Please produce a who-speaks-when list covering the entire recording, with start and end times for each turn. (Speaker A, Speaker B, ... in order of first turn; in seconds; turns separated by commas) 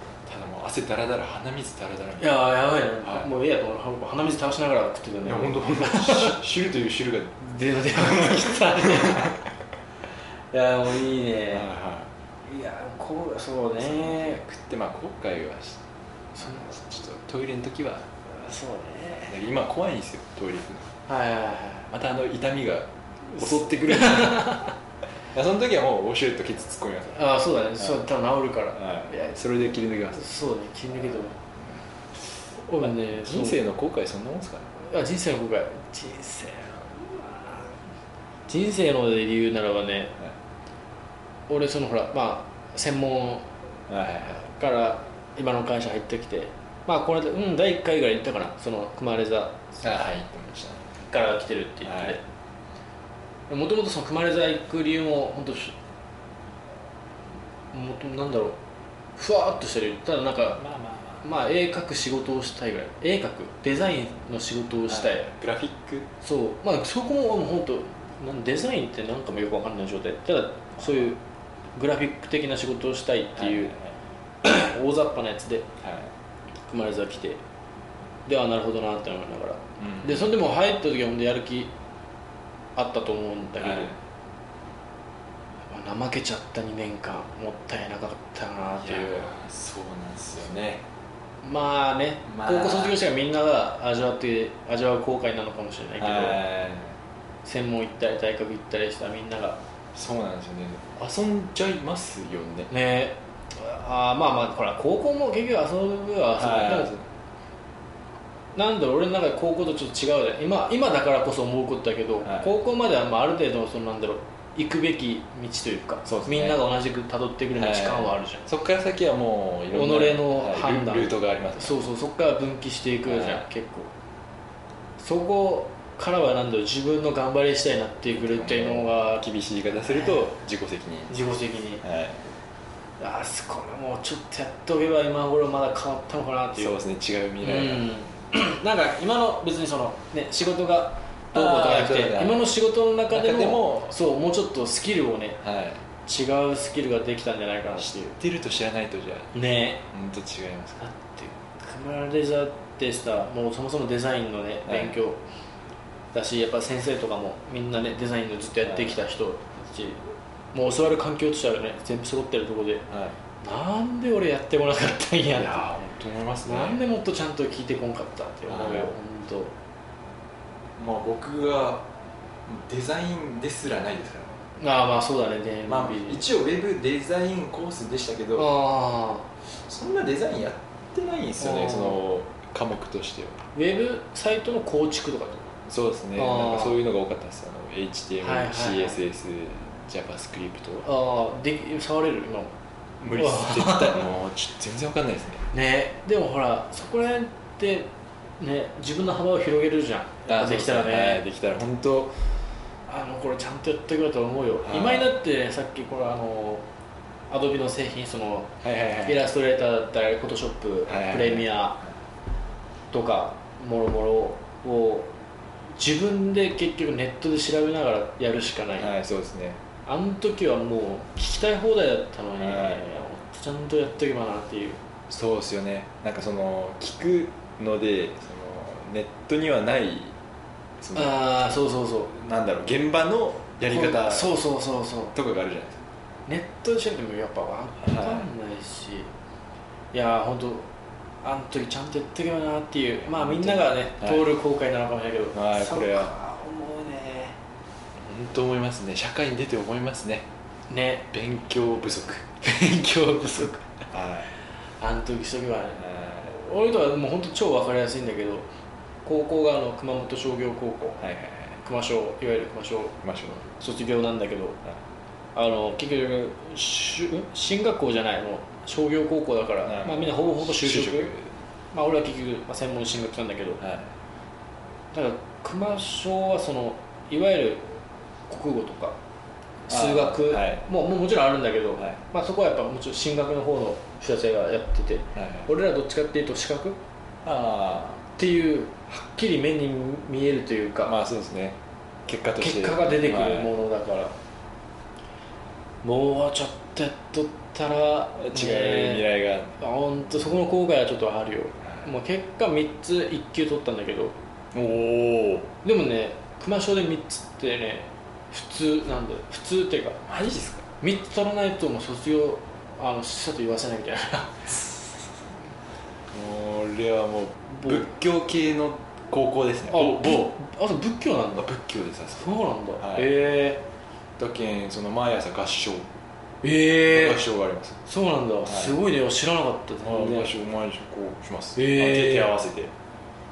Speaker A: 0.2-2.3, Speaker B: 2.2-6.4, Speaker A: 3.0-3.3, Speaker A: 5.2-7.4, Speaker B: 7.4-9.4, Speaker A: 7.9-9.4, Speaker B: 10.5-11.7, Speaker A: 11.5-12.1, Speaker B: 12.4-14.4, Speaker A: 13.8-15.8, Speaker B: 16.4-16.6, Speaker A: 16.4-18.1, Speaker B: 18.3-19.4, Speaker A: 19.3-20.9, Speaker B: 21.1-21.9, Speaker A: 21.9-24.6, Speaker B: 23.4-24.7, Speaker A: 25.3-27.2, Speaker B: 27.1-29.4, Speaker A: 28.8-30.2, Speaker B: 30.1-31.4, Speaker B: 32.6-33.6, Speaker A: 32.8-34.7, Speaker B: 34.8-37.8, Speaker B: 38.5-40.1, Speaker B: 41.5-43.5, Speaker A: 43.9-44.4, Speaker B: 44.3-50.0, Speaker A: 49.8-50.9, Speaker B: 51.1-52.2, Speaker A: 51.8-52.2, Speaker B: 53.5-55.8, Speaker B: 57.7-58.6, Speaker B: 59.2-60.6, Speaker A: 60.6-61.2, Speaker B: 61.2-65.3, Speaker A: 64.9-66.1, Speaker B: 66.2-71.2, Speaker B: 71.7-73.7, Speaker A: 73.4-73.9, Speaker B: 74.4-75.7, Speaker A: 75.8-76.1, Speaker B: 76.7-77.4, Speaker B: 78.2-81.7, Speaker A: 79.8-80.3, Speaker B: 82.8-83.9, Speaker A: 83.6-84.0, Speaker B: 85.7-89.3, Speaker A: 88.8-90.8, Speaker B: 91.4-96.4, Speaker A: 92.3-93.0, Speaker A: 96.0-96.9, Speaker B: 97.4-99.6, Speaker A: 99.9-102.7, Speaker B: 102.7-106.9, Speaker A: 106.4-107.1, Speaker B: 108.5-118.4, Speaker A: 112.2-112.5, Speaker A: 116.0-116.6, Speaker A: 117.5-121.8, Speaker B: 119.7-123.9, Speaker A: 123.0-123.4, Speaker B: 125.0-129.2, Speaker A: 128.1-131.1, Speaker B: 129.8-130.2, Speaker B: 131.1-131.8, Speaker A: 131.8-132.2, Speaker B: 133.0-136.7, Speaker A: 136.6-137.9, Speaker B: 137.4-145.4, Speaker A: 141.3-142.5, Speaker A: 143.1-143.9, Speaker A: 145.4-145.8, Speaker B: 146.0-148.2, Speaker A: 147.8-149.3, Speaker B: 149.3-149.8, Speaker A: 149.9-150.8, Speaker B: 150.8-155.2, Speaker A: 154.7-154.9, Speaker B: 156.1-162.9, Speaker A: 162.9-163.1, Speaker B: 163.4-165.7, Speaker A: 165.3-166.8, Speaker B: 166.4-169.5, Speaker A: 168.5-168.9, Speaker A: 170.8-171.9, Speaker A: 172.4-174.4, Speaker B: 174.6-176.2, Speaker A: 175.7-178.5, Speaker B: 178.3-179.3, Speaker A: 179.5-183.4, Speaker B: 181.4-182.0, Speaker B: 183.5-185.6, Speaker A: 185.7-190.8, Speaker B: 186.2-186.8, Speaker B: 188.2-189.0, Speaker B: 190.8-192.5, Speaker A: 193.0-195.4, Speaker B: 193.2-194.0, Speaker B: 195.5-201.2, Speaker A: 200.3-202.2, Speaker B: 202.9-206.6, Speaker A: 204.6-205.1, Speaker B: 207.3-211.8, Speaker A: 208.6-209.2, Speaker A: 210.9-211.5, Speaker B: 212.9-215.1, Speaker B: 215.8-218.9, Speaker A: 218.8-219.6, Speaker B: 219.8-224.8, Speaker A: 222.4-222.9, Speaker A: 225.1-230.1, Speaker A: 230.8-231.5, Speaker B: 230.9-232.1, Speaker A: 232.1-234.3, Speaker B: 233.7-235.1, Speaker A: 235.1-235.8, Speaker B: 236.3-239.1, Speaker A: 237.8-238.3, Speaker B: 239.9-240.7, Speaker B: 241.2-247.4, Speaker A: 243.0-244.2, Speaker A: 245.3-246.1, Speaker A: 248.0-250.3, Speaker B: 250.7-251.1, Speaker A: 251.1-252.4, Speaker B: 252.4-253.8, Speaker A: 253.9-254.3, Speaker B: 254.8-258.5, Speaker A: 255.8-256.3, Speaker B: 259.0-261.1, Speaker A: 261.0-261.6, Speaker B: 261.6-264.6, Speaker A: 263.0-263.4, Speaker B: 265.3-271.1, Speaker A: 269.6-271.3, Speaker B: 271.7-273.6, Speaker A: 273.6-273.9, Speaker B: 274.9-277.8, Speaker B: 278.3-278.9, Speaker B: 279.7-286.8, Speaker A: 279.7-280.6, Speaker A: 285.1-285.5, Speaker A: 287.2-288.0, Speaker B: 288.1-290.9, Speaker A: 290.8-293.5, Speaker B: 292.4-294.1, Speaker B: 295.8-304.1, Speaker A: 298.1-299.5, Speaker A: 304.5-305.5, Speaker B: 305.6-310.0, Speaker A: 310.1-310.7, Speaker B: 310.8-314.9, Speaker A: 316.1-320.3, Speaker B: 317.5-317.8, Speaker B: 319.7-321.5, Speaker A: 321.3-323.1, Speaker B: 322.1-323.6, Speaker A: 324.2-325.9, Speaker B: 326.4-327.2, Speaker A: 326.9-327.8, Speaker B: 327.9-330.3, Speaker A: 328.4-328.8, Speaker A: 329.8-332.7, Speaker B: 331.6-332.3